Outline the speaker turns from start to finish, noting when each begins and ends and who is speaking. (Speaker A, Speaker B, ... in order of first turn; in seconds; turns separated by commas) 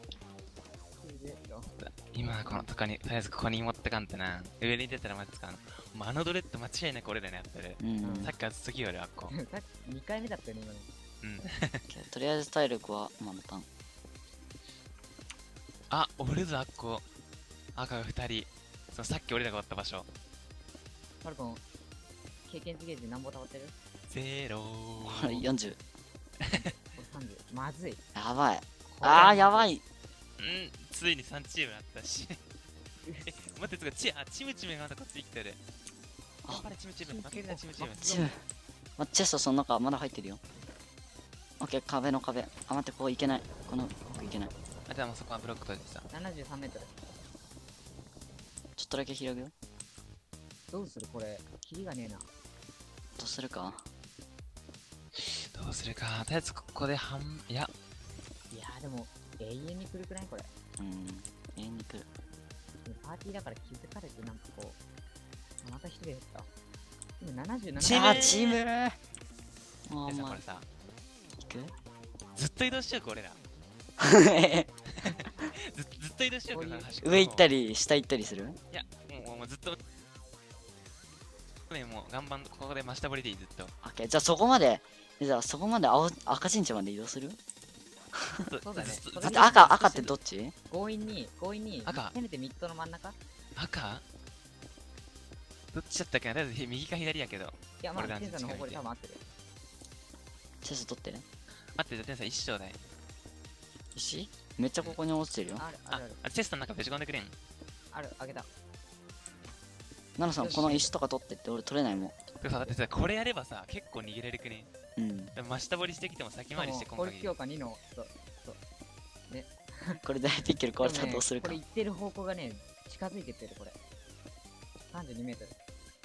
Speaker A: 1.0-2.8, Speaker B: 1.7-9.3, Speaker C: 7.8-8.3, Speaker A: 8.0-8.3, Speaker A: 9.3-10.9, Speaker B: 11.2-11.8, Speaker C: 11.9-13.7, Speaker B: 15.9-17.0, Speaker B: 17.8-20.1, Speaker A: 21.2-21.6, Speaker A: 22.5-23.7, Speaker B: 24.1-25.4, Speaker C: 25.0-25.8, Speaker B: 26.4-26.7, Speaker A: 26.9-28.0, Speaker C: 28.1-29.8, Speaker A: 28.9-29.7, Speaker B: 30.4-32.4, Speaker B: 33.2-35.6, Speaker B: 36.5-38.2, Speaker A: 37.0-38.3, Speaker C: 38.0-38.4, Speaker C: 39.0-40.4, Speaker C: 41.6-44.5, Speaker B: 44.9-46.1, Speaker A: 46.1-46.9, Speaker C: 48.8-49.5, Speaker A: 50.7-52.3, Speaker C: 53.1-53.8, Speaker B: 55.1-57.7, Speaker A: 58.5-60.5, Speaker C: 60.8-62.1, Speaker A: 62.8-64.8, Speaker A: 65.6-66.5, Speaker A: 67.2-68.4, Speaker B: 67.8-68.6, Speaker C: 67.9-69.0, Speaker C: 69.9-70.4, Speaker B: 70.0-70.6, Speaker C: 71.4-71.7, Speaker B: 72.3-73.4, Speaker C: 74.0-74.7, Speaker B: 74.9-77.5, Speaker A: 76.5-76.9, Speaker C: 77.0-78.6, Speaker B: 78.7-79.8, Speaker B: 81.7-83.7, Speaker C: 83.8-87.4, Speaker C: 88.2-88.4, Speaker B: 88.4-90.1, Speaker A: 88.6-89.7, Speaker C: 89.2-90.5, Speaker A: 90.7-93.2, Speaker B: 91.8-92.1, Speaker B: 93.5-94.0, Speaker B: 95.7-98.8, Speaker A: 97.8-99.2, Speaker C: 100.6-101.2, Speaker B: 101.7-102.8, Speaker C: 103.9-105.6, Speaker A: 105.6-106.2, Speaker B: 105.9-107.3, Speaker A: 107.9-108.5, Speaker C: 110.2-112.2, Speaker A: 110.3-110.9, Speaker B: 112.4-114.7, Speaker C: 115.0-115.3, Speaker B: 115.3-117.3, Speaker A: 116.5-118.6, Speaker A: 119.3-120.0, Speaker C: 120.0-121.6, Speaker A: 120.8-123.8, Speaker A: 124.9-125.5